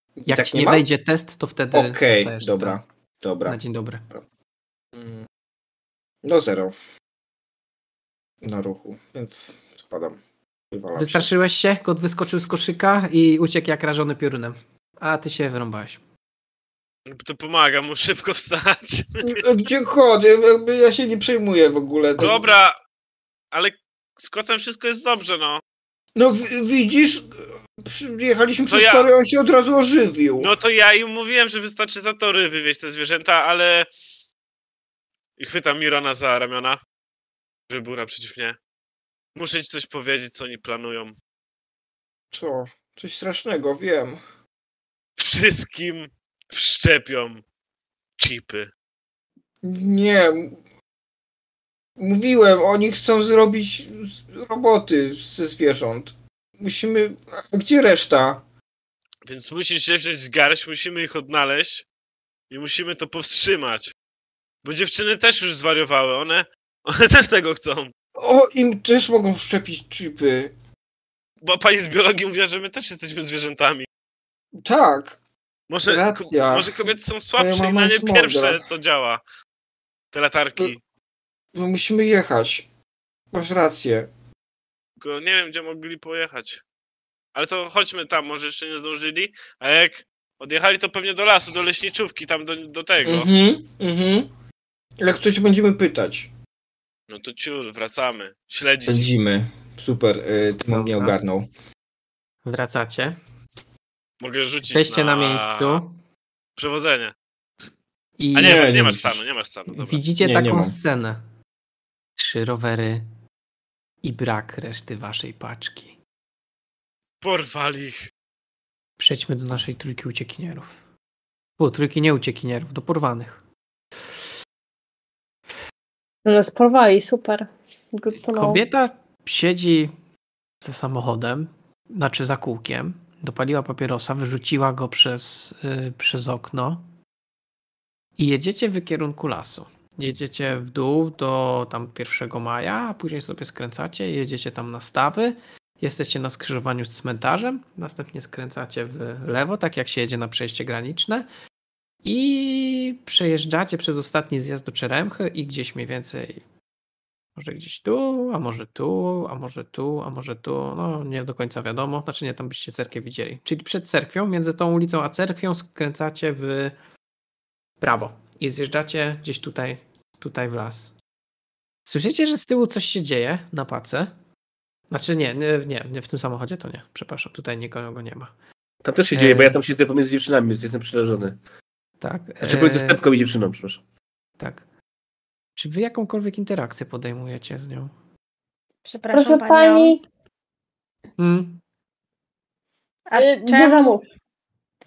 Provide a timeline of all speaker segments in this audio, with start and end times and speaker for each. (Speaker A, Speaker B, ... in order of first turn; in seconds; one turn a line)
Speaker A: 0.2-0.8
Speaker B: 0.3-2.8
Speaker A: 1.7-3.6
Speaker B: 3.5-4.0
Speaker A: 4.9-5.2
Speaker A: 6.2-6.7
Speaker A: 8.4-10.2
Speaker A: 10.7-11.3
Speaker B: 10.9-16.0
Speaker C: 17.1-19.4
Speaker A: 19.2-22.5
Speaker C: 22.2-22.8
Speaker C: 23.5-25.6
Speaker A: 26.1-27.3
Speaker A: 27.8-30.5
Speaker C: 28.7-29.1
Speaker C: 30.4-33.9
Speaker C: 35.4-36.8
Speaker C: 37.7-38.5
Speaker C: 39.3-41.1
Speaker A: 42.3-44.2
Speaker C: 45.2-47.4
Speaker C: 48.2-48.7
Speaker A: 49.6-50.6
Speaker A: 52.0-58.4
Speaker C: 59.2-61.9
Speaker C: 62.5-63.9
Speaker C: 64.6-67.9
Speaker A: 68.2-70.5
Speaker C: 71.4-73.9
Speaker A: 74.6-75.2
Speaker C: 75.7-79.2
Speaker A: 75.8-76.8
Speaker A: 77.3-78.6
Speaker C: 80.1-80.8
Speaker A: 81.5-82.6
Speaker A: 83.3-84.1
Speaker C: 85.0-86.6
Speaker C: 87.3-93.3
Speaker A: 93.0-94.3
Speaker A: 95.0-96.3
Speaker C: 97.1-99.1
Speaker A: 98.9-101.5
Speaker B: 100.7-101.2
Speaker B: 102.4-103.2
Speaker C: 104.2-105.8
Speaker B: 104.7-105.9
Speaker C: 106.6-107.1
Speaker B: 108.2-108.9
Speaker C: 108.3-110.0
Speaker A: 108.4-109.2
Speaker B: 109.7-111.2
Speaker A: 110.2-110.7
Speaker B: 112.2-113.0
Speaker B: 114.0-116.0
Speaker C: 117.2-118.1
Speaker B: 119.0-120.7
Speaker B: 121.6-123.4
Speaker D: 126.2-128.6
Speaker B: 128.3-129.9
Speaker B: 130.6-136.8
Speaker B: 138.2-151.2
Speaker B: 152.0-156.4
Speaker B: 157.3-166.7
Speaker B: 167.8-170.9
Speaker B: 171.8-174.1
Speaker B: 174.9-178.3
Speaker E: 178.8-181.3
Speaker B: 179.1-179.6
Speaker B: 182.0-183.0
Speaker E: 182.4-183.8
Speaker B: 184.4-184.6
Speaker B: 185.6-187.9
Speaker F: 188.8-190.0
Speaker D: 189.1-190.0
Speaker B: 191.2-191.6
Speaker F: 193.1-193.9
Speaker D: 193.2-194.1